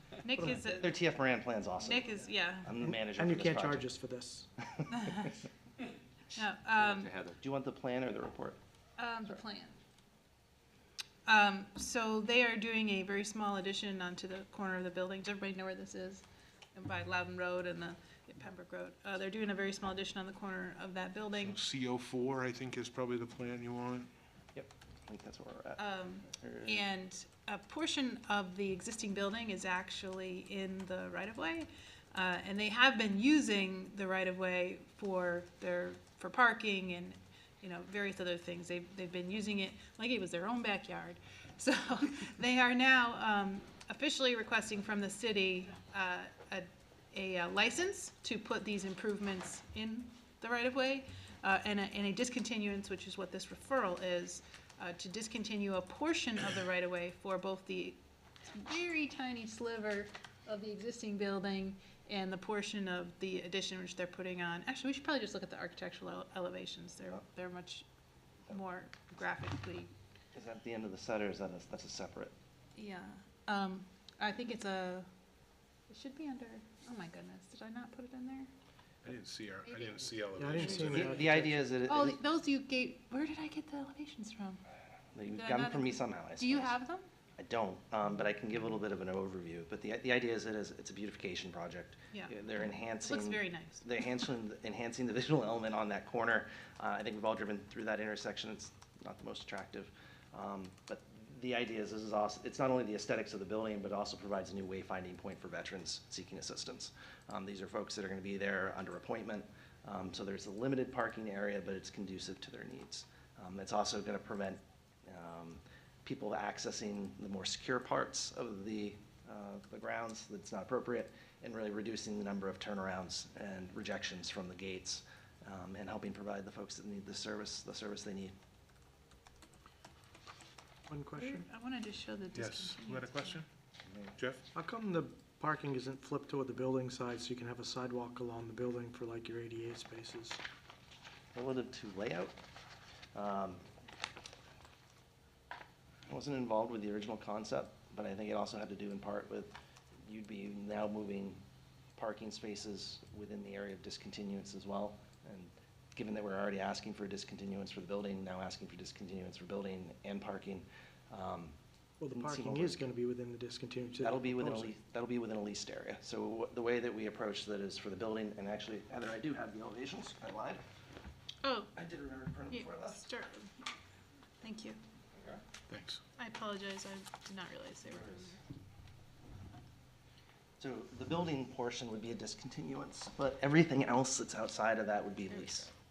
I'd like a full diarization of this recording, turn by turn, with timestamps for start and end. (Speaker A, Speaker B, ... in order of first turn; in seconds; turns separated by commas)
Speaker A: 0.2-0.9, Speaker B: 0.4-0.6, Speaker C: 0.6-2.1, Speaker A: 1.8-2.7, Speaker C: 2.6-3.9, Speaker B: 2.8-4.5, Speaker C: 4.7-5.3, Speaker A: 4.9-5.4, Speaker A: 6.3-7.2, Speaker C: 6.8-8.6, Speaker A: 9.0-9.8, Speaker A: 11.3-21.6, Speaker D: 21.4-24.1, Speaker C: 24.6-26.8, Speaker A: 25.8-67.9, Speaker A: 68.5-69.9, Speaker C: 70.3-72.3, Speaker A: 72.8-75.1, Speaker A: 75.9-78.5, Speaker D: 79.0-81.3, Speaker A: 79.7-80.9, Speaker B: 80.4-81.7, Speaker C: 80.8-82.2, Speaker A: 81.9-84.6, Speaker C: 85.2-86.8, Speaker A: 85.3-87.1, Speaker C: 87.4-128.3, Speaker A: 93.0-93.8, Speaker B: 130.9-131.5, Speaker A: 131.2-133.4, Speaker D: 132.3-133.5, Speaker C: 133.8-134.1, Speaker D: 134.2-134.4, Speaker B: 134.5-140.4, Speaker C: 141.3-142.3, Speaker C: 143.2-143.6, Speaker C: 146.1-149.5, Speaker C: 150.1-151.4, Speaker C: 151.9-161.5, Speaker B: 162.0-164.8, Speaker C: 162.1-162.8, Speaker C: 164.0-170.6, Speaker A: 171.4-171.7, Speaker C: 171.8-173.1, Speaker A: 172.5-173.7, Speaker A: 174.4-174.8, Speaker C: 175.2-175.4, Speaker D: 175.7-176.0, Speaker A: 176.2-178.4, Speaker C: 177.9-178.3, Speaker C: 180.6-185.7, Speaker A: 185.3-185.7